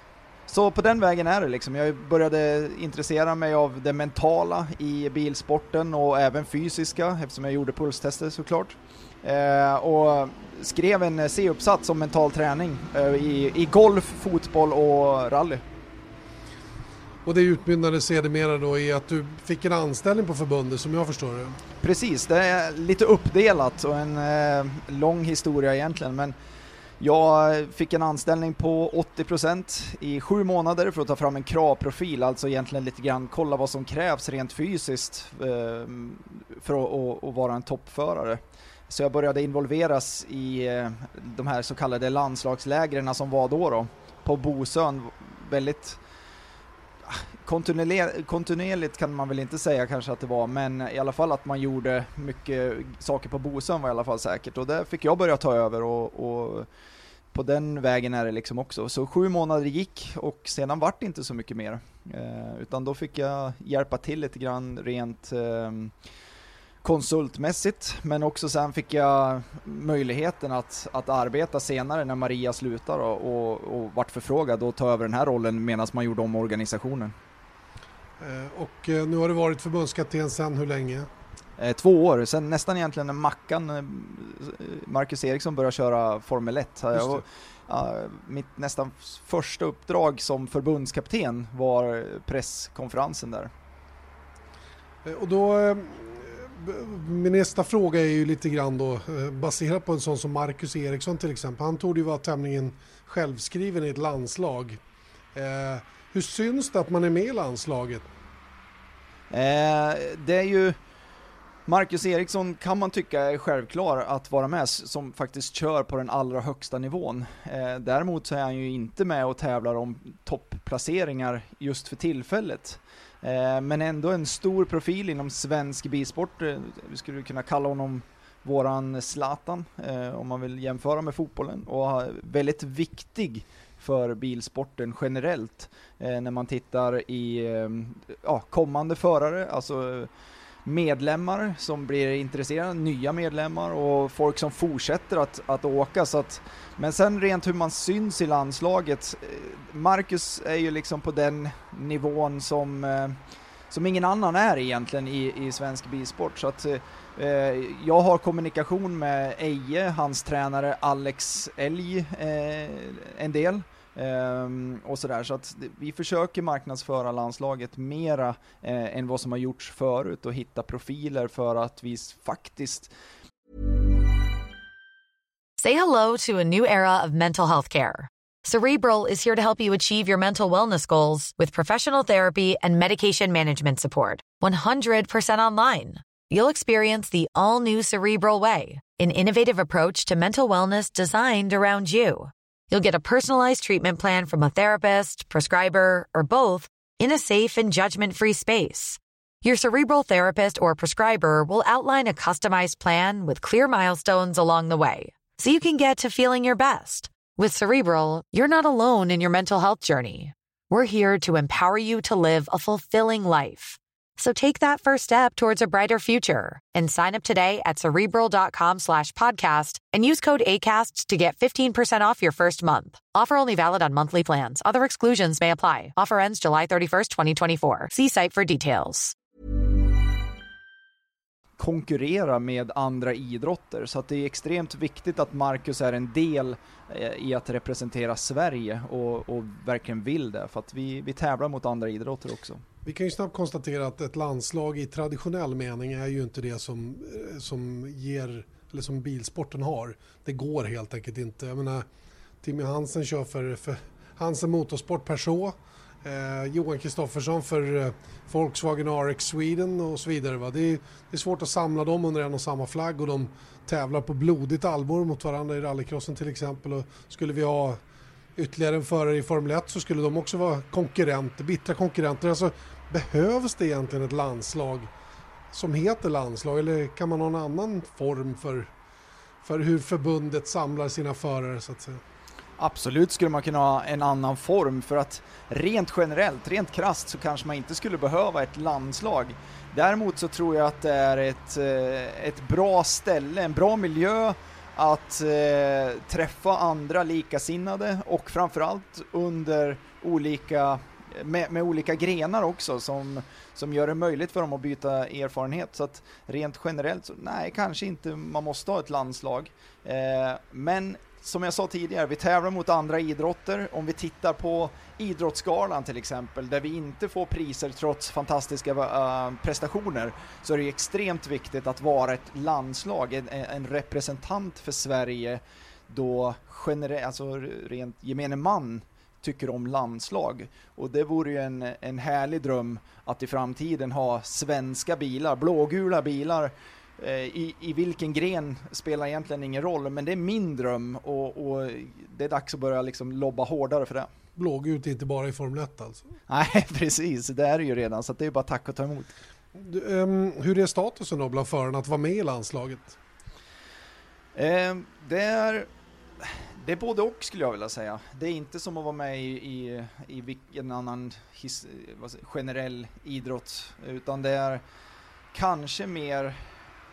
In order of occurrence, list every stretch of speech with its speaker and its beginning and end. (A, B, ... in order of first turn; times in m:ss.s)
0:00.5-0:15.6 A
0:17.2-0:21.6 B
0:21.8-0:26.4 A
0:27.0-0:46.0 A
0:47.1-0:56.7 A
0:57.3-1:05.9 A
1:06.8-1:17.1 A
1:18.2-1:21.1 B
1:21.6-1:33.5 A
1:26.9-1:27.2 B
1:35.0-1:44.8 B
1:45.4-1:48.1 B
1:49.3-1:50.8 A
1:51.7-2:20.1 A
2:20.6-2:33.2 A
2:33.7-2:52.9 A
2:55.6-3:49.2 C
3:51.6-4:02.6 A
4:02.8-4:11.9 B
4:12.4-4:27.8 B
4:28.4-4:34.9 B
4:35.5-4:38.7 B
4:39.4-4:42.0 B
4:42.6-5:44.1 A
5:44.4-5:46.1 B
5:46.3-5:49.2 A
5:49.6-5:53.0 B
5:54.4-5:55.7 A
5:56.2-6:04.6 A
6:05.3-6:06.4 A